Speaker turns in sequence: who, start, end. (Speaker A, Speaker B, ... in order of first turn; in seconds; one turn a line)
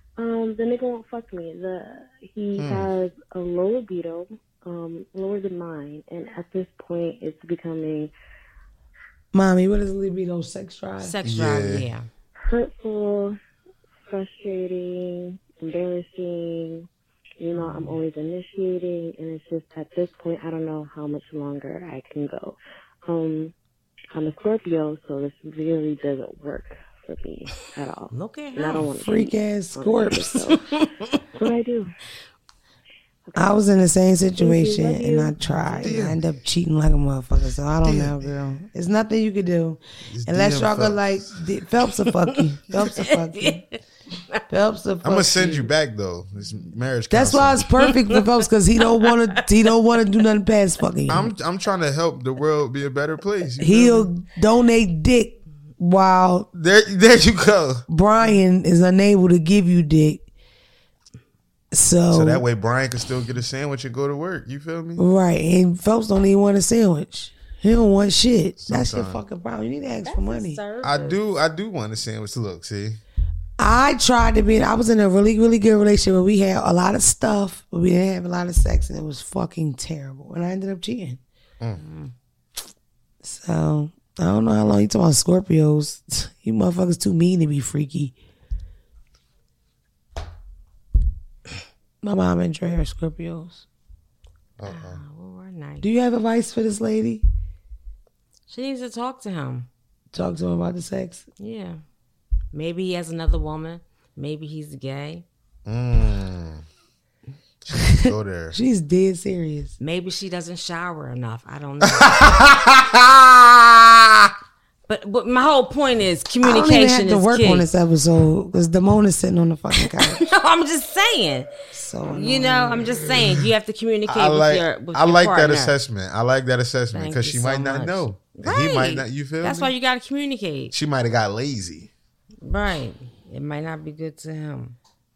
Speaker A: 0.2-8.1
Speaker B: 2.6-2.9
Speaker C: 9.3-11.1
Speaker D: 11.0-12.1
Speaker B: 11.2-11.9
Speaker A: 12.4-13.4
Speaker A: 14.0-16.9
Speaker A: 17.4-23.5
Speaker D: 17.6-17.9
Speaker A: 24.1-30.6
Speaker D: 28.1-28.9
Speaker C: 29.0-30.4
Speaker D: 30.5-31.1
Speaker A: 31.4-31.9
Speaker A: 33.3-33.6
Speaker C: 33.3-43.6
Speaker A: 34.4-36.0
Speaker B: 35.8-36.2
Speaker B: 37.8-38.2
Speaker B: 40.1-41.3
Speaker D: 42.1-43.8
Speaker C: 44.5-45.6
Speaker B: 45.0-47.7
Speaker C: 47.1-51.3
Speaker D: 47.8-48.2
Speaker D: 49.0-49.4
Speaker B: 51.1-54.1
Speaker C: 53.6-56.5
Speaker B: 56.5-57.8
Speaker C: 57.9-60.2
Speaker C: 61.7-62.4
Speaker B: 62.1-65.0
Speaker C: 65.0-70.6
Speaker B: 68.6-69.2
Speaker D: 70.0-71.2
Speaker B: 70.8-73.0
Speaker C: 73.6-81.2
Speaker D: 81.8-82.1
Speaker C: 83.2-88.1
Speaker C: 92.0-93.6
Speaker B: 94.6-95.0
Speaker D: 94.7-95.9
Speaker C: 95.8-97.2
Speaker D: 98.5-99.7
Speaker C: 100.1-101.2
Speaker D: 101.4-101.8
Speaker D: 102.5-105.2
Speaker B: 105.7-106.6
Speaker B: 107.7-108.5
Speaker C: 107.7-109.7
Speaker D: 109.8-112.3
Speaker B: 111.9-114.3
Speaker D: 114.9-117.6
Speaker C: 116.4-120.2
Speaker D: 119.8-121.5
Speaker C: 121.7-123.4
Speaker D: 122.1-125.7
Speaker B: 124.1-129.7
Speaker D: 126.9-130.7
Speaker B: 130.7-131.9
Speaker D: 132.4-134.8